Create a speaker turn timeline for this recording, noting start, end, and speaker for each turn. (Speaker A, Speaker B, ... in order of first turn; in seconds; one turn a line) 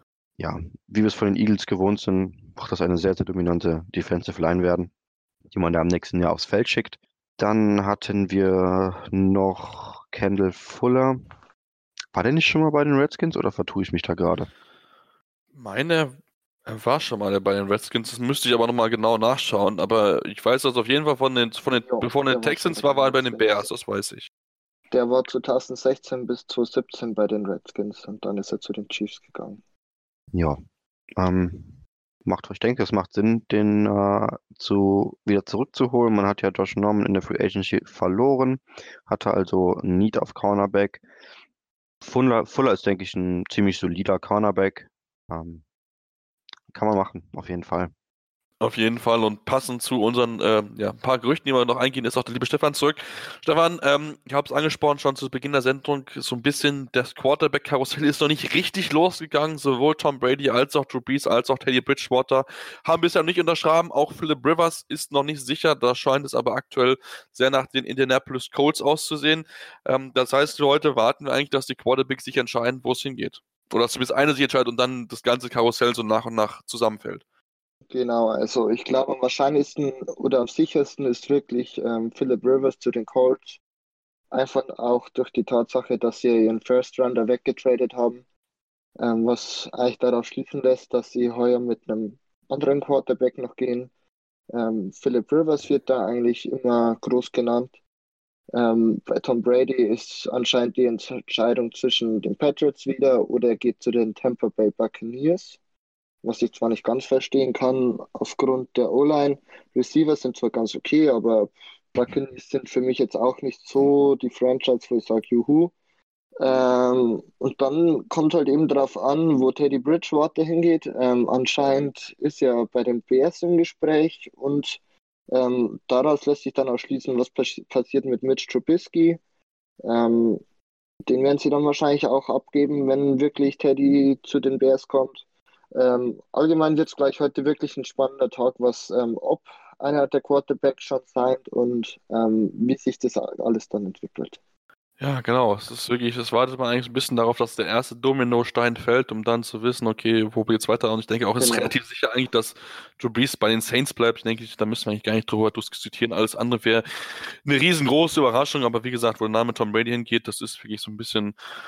Speaker A: 0.4-4.9
Speaker A: 5.5-11.3
Speaker A: 12.1-14.5
Speaker B: 15.5-24.3
Speaker C: 21.8-23.7
Speaker C: 24.9-29.6
Speaker A: 30.3-30.6
Speaker A: 31.2-41.0
Speaker A: 42.0-45.6
Speaker A: 46.7-47.9
Speaker B: 48.6-77.2
Speaker C: 77.9-83.6
Speaker C: 84.3-88.2
Speaker C: 89.0-93.9
Speaker C: 94.5-97.7
Speaker C: 98.5-105.6
Speaker C: 106.2-115.7
Speaker C: 116.4-124.8
Speaker C: 125.3-129.2
Speaker C: 129.8-130.4
Speaker C: 131.1-135.2
Speaker C: 135.7-144.4
Speaker B: 145.0-156.8
Speaker C: 151.4-151.7
Speaker B: 157.4-161.3